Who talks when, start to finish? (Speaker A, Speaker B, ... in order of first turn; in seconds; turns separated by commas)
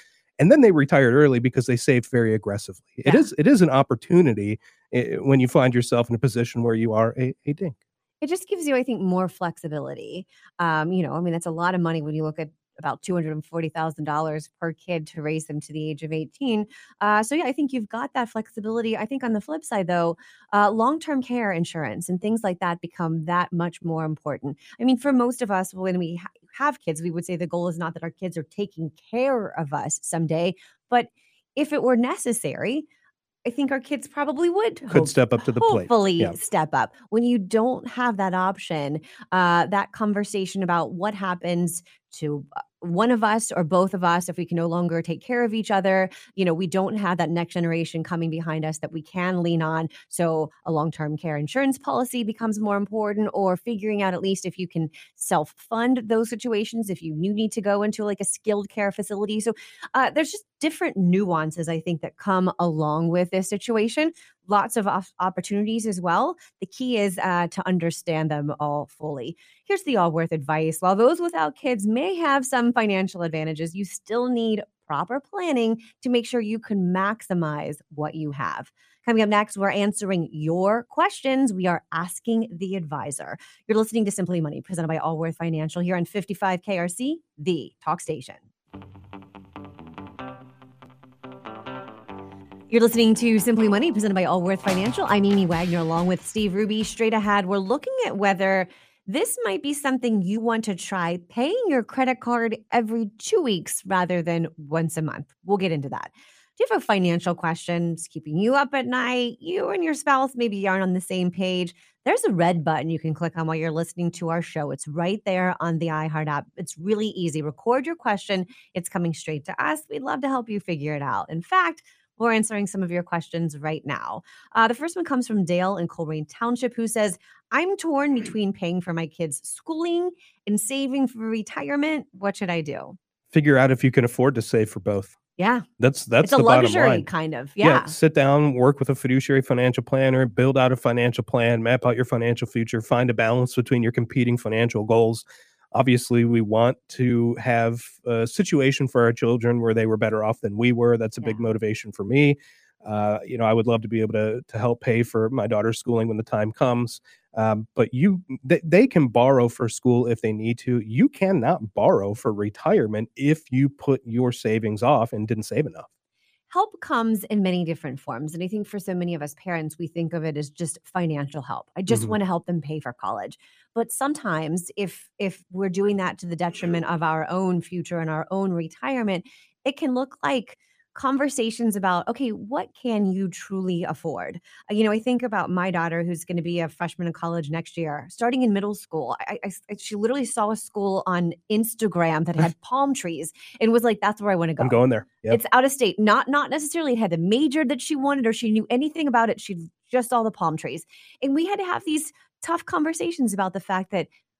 Speaker A: 0.4-7.8, Speaker B: 8.2-32.9, Speaker B: 33.4-88.4, Speaker A: 34.9-36.4, Speaker B: 92.7-132.9, Speaker A: 133.3-135.1, Speaker B: 135.4-135.7, Speaker A: 135.8-137.1, Speaker B: 136.2-137.9, Speaker A: 137.6-165.9, Speaker B: 166.5-204.1, Speaker A: 171.9-172.1, Speaker A: 194.6-195.4